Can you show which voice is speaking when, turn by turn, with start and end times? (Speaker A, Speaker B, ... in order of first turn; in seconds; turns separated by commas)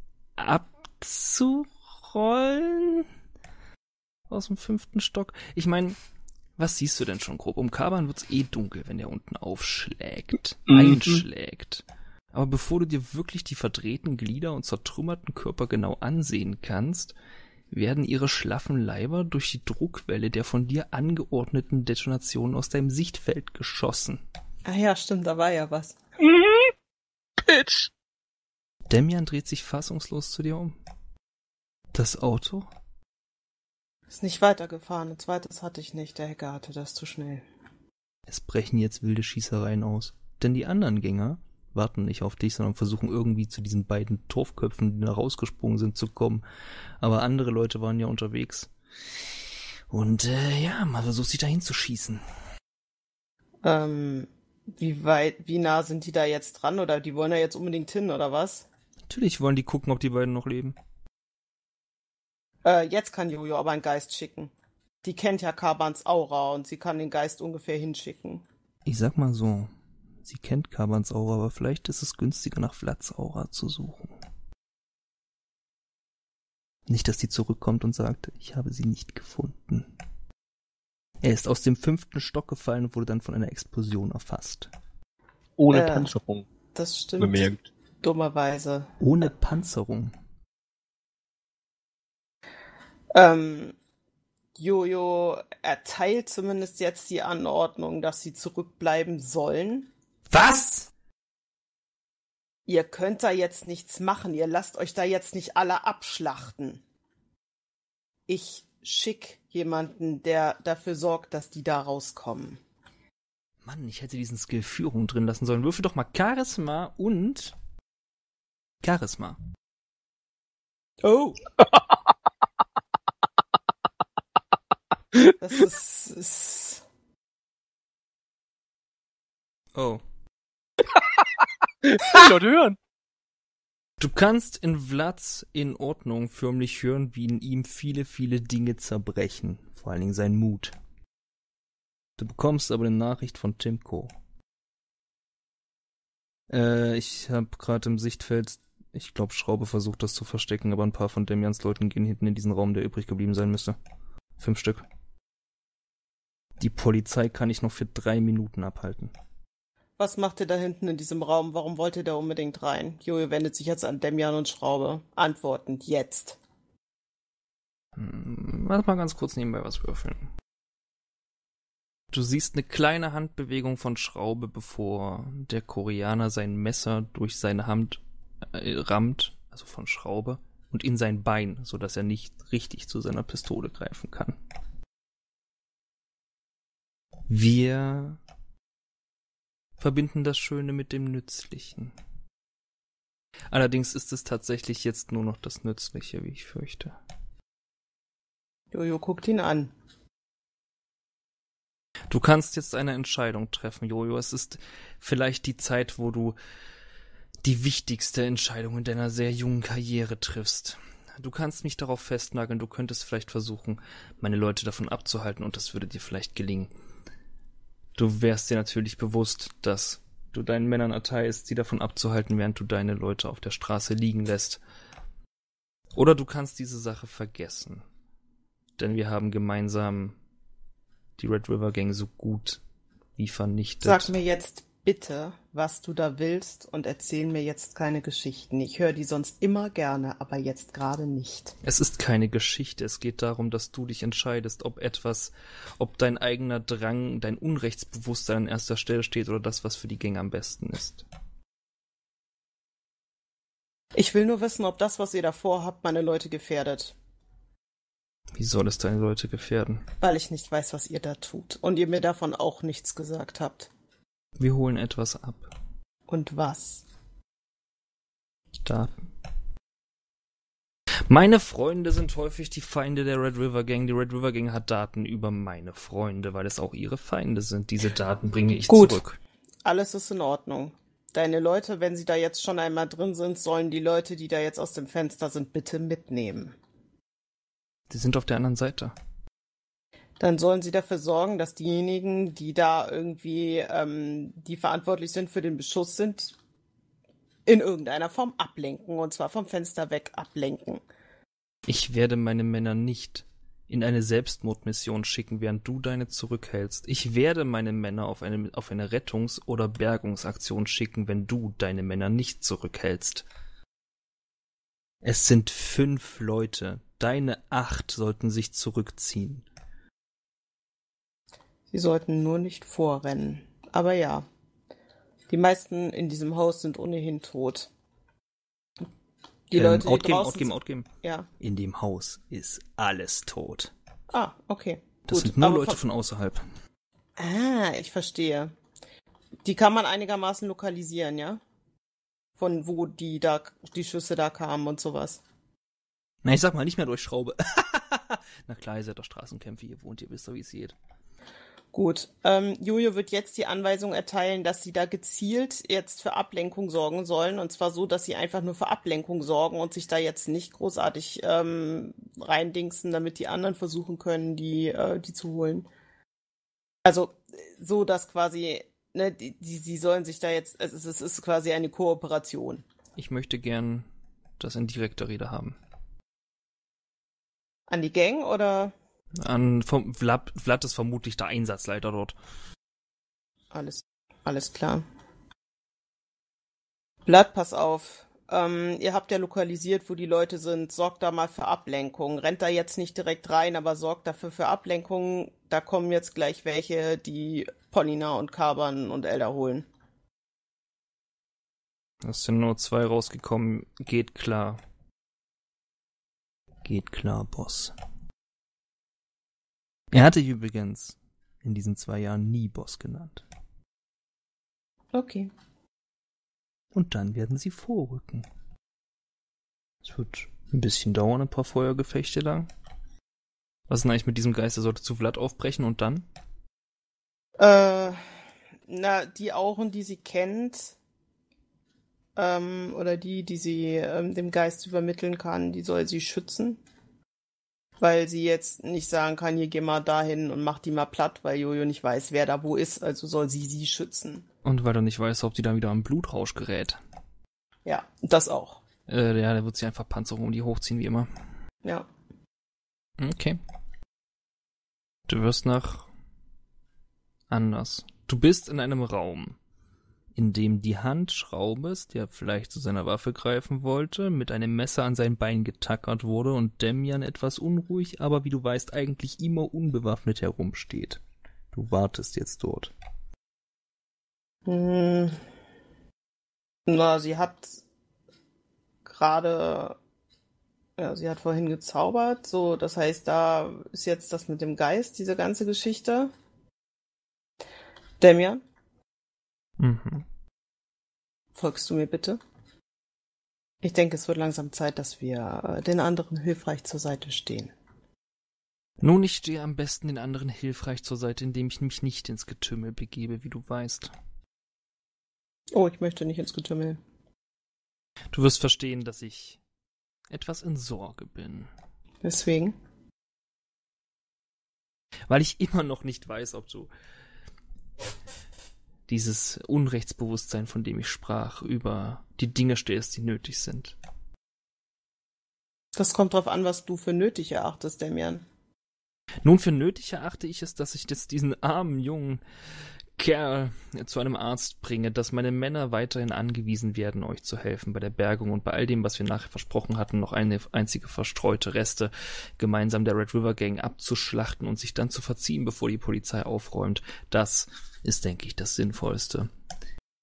Speaker A: 0.4-3.1, Speaker A: 4.3-6.0, Speaker A: 6.6-17.1, Speaker B: 10.7-11.2, Speaker A: 17.7-24.2, Speaker C: 24.6-26.0, Speaker B: 26.2-26.7, Speaker B: 27.4-27.9, Speaker A: 28.9-30.7, Speaker A: 31.9-32.7, Speaker C: 34.1-37.4, Speaker A: 38.3-46.4, Speaker A: 47.0-48.7, Speaker A: 49.9-52.2, Speaker C: 53.6-58.7, Speaker A: 59.1-60.8, Speaker C: 62.6-64.5, Speaker C: 65.0-68.4, Speaker A: 68.8-69.7, Speaker A: 70.2-74.2, Speaker A: 76.9-79.9, Speaker A: 81.2-84.7, Speaker B: 85.6-86.5, Speaker C: 85.7-86.1, Speaker C: 86.7-88.9, Speaker B: 87.2-87.6, Speaker A: 89.0-90.1, Speaker C: 93.1-93.8, Speaker C: 94.5-99.9, Speaker A: 100.3-100.9, Speaker C: 102.7-106.8, Speaker C: 108.3-112.6, Speaker A: 113.6-117.5, Speaker A: 118.8-119.4, Speaker C: 121.0-121.4, Speaker C: 125.4-126.8, Speaker A: 129.7-130.0, Speaker B: 130.9-131.2, Speaker B: 131.8-132.8, Speaker A: 134.0-140.7, Speaker A: 142.2-144.1, Speaker A: 146.5-153.8, Speaker A: 154.4-154.8, Speaker A: 156.6-159.1, Speaker C: 160.0-166.4, Speaker A: 167.9-170.3, Speaker A: 172.1-184.4, Speaker A: 187.3-188.2, Speaker A: 189.8-191.9, Speaker A: 193.5-196.9, Speaker C: 198.7-199.7, Speaker A: 202.1-206.3, Speaker A: 207.4-216.7, Speaker A: 217.9-224.6, Speaker A: 225.9-227.8, Speaker A: 228.8-230.2, Speaker A: 231.2-232.6, Speaker A: 233.2-234.1, Speaker C: 233.8-241.5, Speaker A: 241.6-251.0, Speaker C: 253.9-256.9, Speaker A: 258.4-259.8, Speaker C: 260.0-263.7, Speaker A: 264.4-265.5, Speaker C: 266.1-266.8, Speaker A: 268.6-268.9, Speaker A: 271.1-279.2, Speaker C: 278.7-279.0, Speaker C: 279.6-286.6, Speaker A: 287.9-288.9, Speaker C: 290.2-296.4, Speaker C: 297.4-300.8, Speaker A: 301.7-313.2, Speaker A: 315.0-319.4, Speaker C: 321.7-324.2, Speaker C: 325.3-327.7, Speaker C: 329.5-330.5, Speaker A: 329.5-330.9, Speaker C: 331.0-331.3, Speaker A: 331.4-333.7, Speaker C: 334.1-335.8, Speaker A: 335.1-336.4, Speaker C: 337.2-338.5, Speaker C: 339.4-341.4, Speaker C: 342.4-345.2, Speaker A: 346.2-350.7, Speaker C: 351.7-365.7, Speaker C: 366.8-372.6, Speaker A: 373.0-373.9, Speaker A: 374.4-375.6, Speaker C: 377.7-378.7, Speaker A: 379.2-382.1, Speaker C: 383.5-384.8, Speaker C: 387.1-399.7, Speaker A: 402.0-404.6, Speaker A: 406.6-407.7, Speaker A: 409.9-413.2, Speaker C: 414.9-415.3, Speaker A: 416.7-418.2, Speaker A: 419.8-422.5, Speaker A: 423.7-426.1, Speaker C: 427.4-428.0, Speaker C: 428.7-430.8, Speaker C: 432.1-436.6, Speaker C: 437.8-444.2, Speaker A: 444.4-446.8, Speaker C: 447.6-448.6, Speaker A: 448.9-451.1, Speaker A: 453.0-453.4, Speaker A: 455.1-455.9, Speaker A: 457.3-459.4, Speaker A: 460.1-471.0, Speaker A: 471.5-472.7, Speaker C: 474.4-475.2, Speaker C: 476.7-477.6, Speaker C: 478.8-479.8, Speaker C: 480.8-486.1, Speaker C: 488.0-488.4, Speaker A: 489.6-490.0, Speaker C: 491.3-492.2, Speaker C: 493.6-497.5, Speaker A: 498.8-503.9, Speaker C: 505.5-506.8, Speaker A: 508.1-509.4, Speaker A: 510.1-511.5, Speaker C: 512.0-512.5, Speaker A: 515.1-516.7, Speaker A: 518.9-523.8, Speaker C: 525.7-528.2, Speaker A: 529.2-532.2, Speaker A: 533.0-549.3